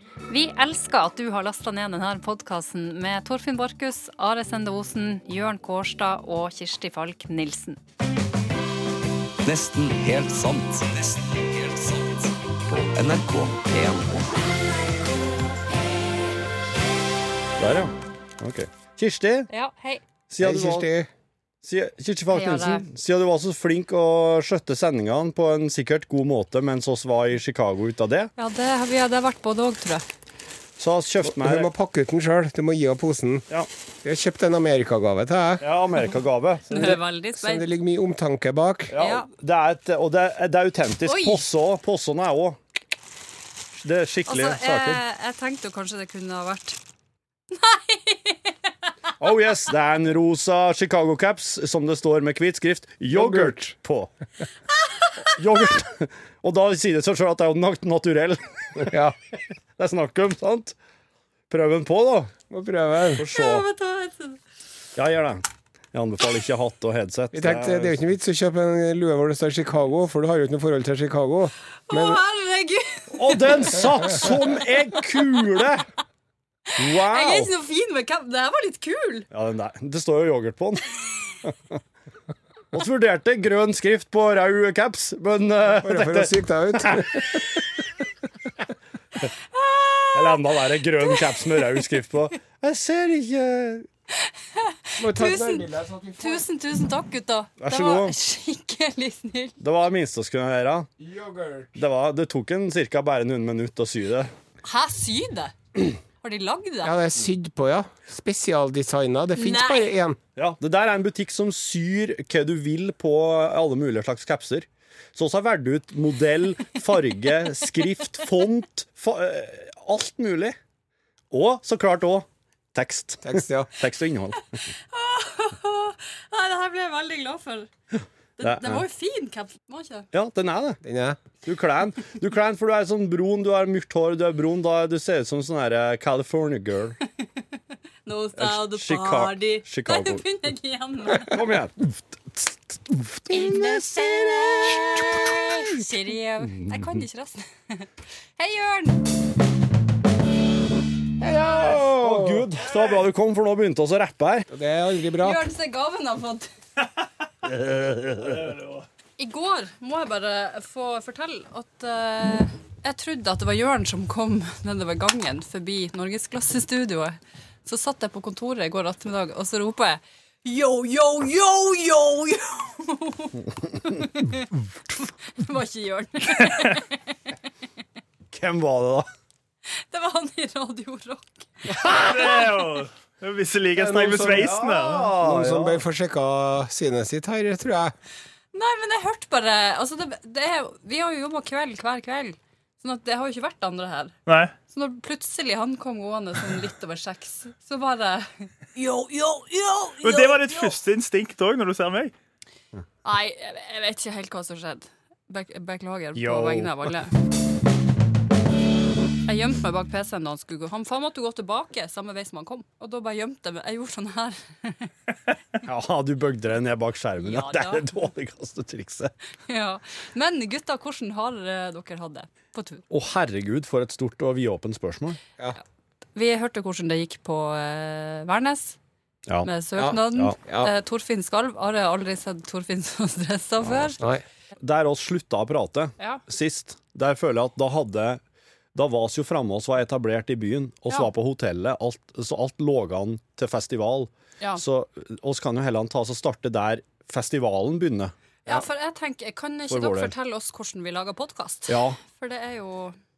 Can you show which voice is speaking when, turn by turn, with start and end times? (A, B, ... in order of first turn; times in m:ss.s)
0:00.3-0:07.8 A
0:09.4-0:14.5 B
0:17.6-0:19.5 C
0:19.5-0:20.0 A
0:20.3-0:20.9 C
0:20.4-0:21.1 D
0:21.6-0:28.3 C
0:22.3-0:22.9 A
0:28.4-0:30.1 A
0:30.8-0:31.7 C
0:31.2-0:33.5 D
0:34.0-0:35.6 D
0:35.6-0:37.0 C
0:36.7-0:37.7 A
0:36.8-0:39.0 D
0:38.9-0:42.6 C
0:39.0-0:39.3 A
0:41.1-0:41.4 A
0:43.8-0:45.0 C
0:44.3-0:46.8 A
0:47.5-0:48.6 A
0:49.2-0:54.1 C
0:53.1-0:53.7 D
0:55.3-1:00.8 C
0:58.8-0:59.2 D
1:01.5-1:02.3 C
1:02.5-1:03.2 D
1:03.2-1:03.7 C
1:03.2-1:04.4 A
1:05.0-1:08.0 C
1:07.3-1:12.2 D
1:11.9-1:14.2 A
1:13.1-1:15.9 C
1:16.8-1:17.5 C
1:16.8-1:19.3 A
1:19.3-1:21.8 C
1:22.7-1:27.6 C
1:25.7-1:27.5 D
1:29.4-1:31.8 A
1:30.1-1:33.9 C
1:34.1-1:35.7 A
1:35.0-1:36.4 D
1:36.2-1:39.6 A
1:37.6-1:38.2 C
1:39.6-1:40.9 C
1:41.0-1:41.8 D
1:41.8-1:44.3 C
1:44.6-1:45.5 A
1:46.2-1:47.0 A
1:46.8-1:50.2 D
1:49.4-1:49.9 A
1:50.4-2:00.6 C
2:01.3-2:04.4 C
2:03.2-2:03.7 D
2:04.7-2:07.7 A
2:08.4-2:10.1 A
2:08.4-2:08.8 C
2:10.1-2:10.8 C
2:10.8-2:11.2 D
2:11.4-2:17.0 C
2:18.1-2:21.4 A
2:18.4-2:20.2 C
2:21.1-2:25.9 C
2:23.3-2:29.0 A
2:26.6-2:27.0 C
2:31.2-2:32.5 D
2:31.6-2:34.5 C
2:34.5-2:35.4 D
2:35.2-2:36.5 A
2:37.4-2:38.5 C
2:38.2-2:38.9 E
2:39.2-2:57.2 A
2:58.3-2:59.1 C
2:59.7-3:02.0 A
3:01.8-3:02.3 C
3:01.9-3:05.1 E
3:03.8-3:04.5 D
3:04.2-3:05.8 C
3:05.1-3:07.9 D
3:08.5-3:14.1 A
3:14.3-3:14.5 E
3:14.7-3:20.8 A
3:20.0-3:22.1 E
3:23.0-3:27.1 A
3:26.2-3:27.0 C
3:29.3-3:34.9 A
3:35.6-3:39.1 C
3:37.2-3:37.9 A
3:39.5-3:42.8 A
3:42.9-3:45.2 C
3:46.2-3:48.8 A
3:49.4-3:54.0 A
3:49.8-3:50.7 D
3:54.6-3:58.2 C
3:58.8-4:08.1 C
4:08.5-4:13.0 A
4:09.7-4:10.1 C
4:11.7-4:12.0 C